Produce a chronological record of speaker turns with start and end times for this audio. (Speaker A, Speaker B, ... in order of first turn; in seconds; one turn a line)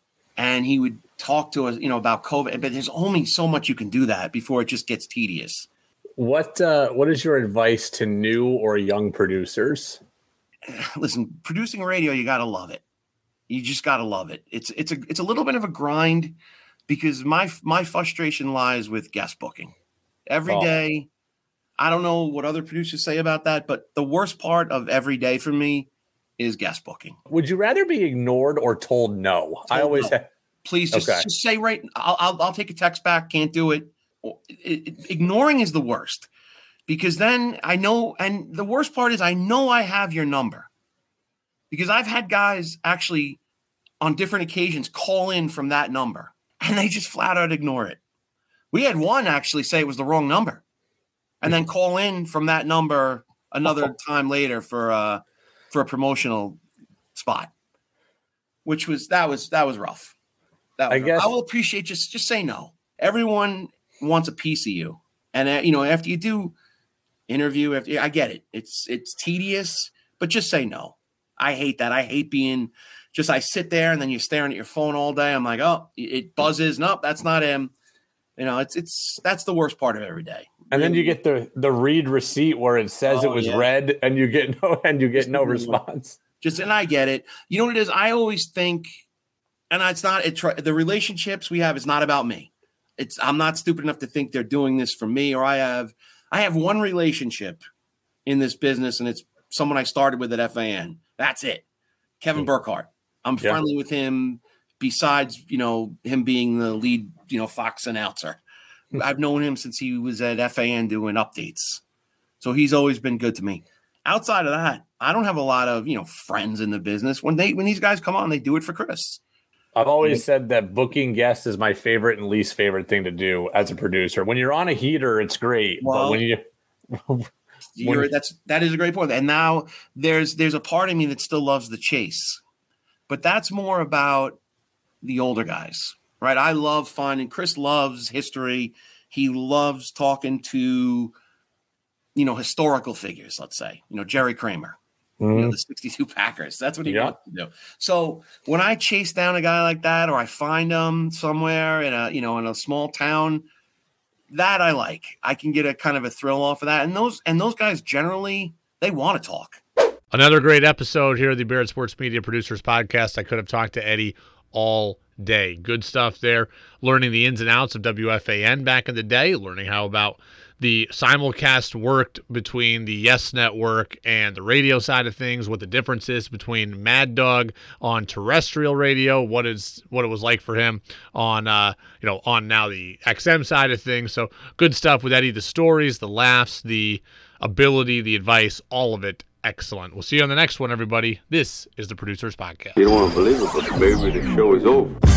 Speaker A: 0.4-5.7
Speaker B: 6.2-10.0
Speaker A: 10.7-12.8
Speaker A: 13.5-16.4
Speaker A: 16.9-19.7
Speaker A: 20.3-21.1
Speaker B: 20.5-20.7
Speaker A: 21.8-27.2
Speaker B: 27.3-30.2
Speaker A: 29.7-36.3
Speaker B: 30.9-31.2
Speaker A: 36.9-40.7
Speaker A: 41.7-43.4
Speaker A: 44.0-48.0
Speaker A: 48.7-50.6
Speaker A: 51.4-56.6
Speaker A: 57.1-57.5
Speaker A: 58.6-60.1
Speaker A: 60.8-66.5
Speaker B: 60.9-61.3
Speaker A: 67.3-77.7
Speaker A: 78.3-81.2
Speaker B: 80.7-86.2
Speaker A: 83.0-83.7
Speaker A: 85.2-85.8
Speaker A: 86.4-89.0
Speaker A: 89.7-97.6
Speaker A: 98.2-101.6
Speaker A: 102.2-108.4
Speaker A: 108.9-111.8
Speaker A: 112.4-119.2
Speaker B: 119.8-126.4
Speaker A: 125.8-126.2
Speaker B: 126.9-127.3
Speaker A: 127.8-132.4
Speaker B: 127.8-128.1
Speaker A: 133.1-134.4
Speaker A: 135.0-141.1
Speaker A: 142.1-144.8
Speaker B: 145.2-145.5
Speaker A: 145.3-153.4
Speaker B: 146.8-147.1
Speaker A: 154.3-159.6
Speaker C: 160.1-192.8
Speaker D: 192.8-194.9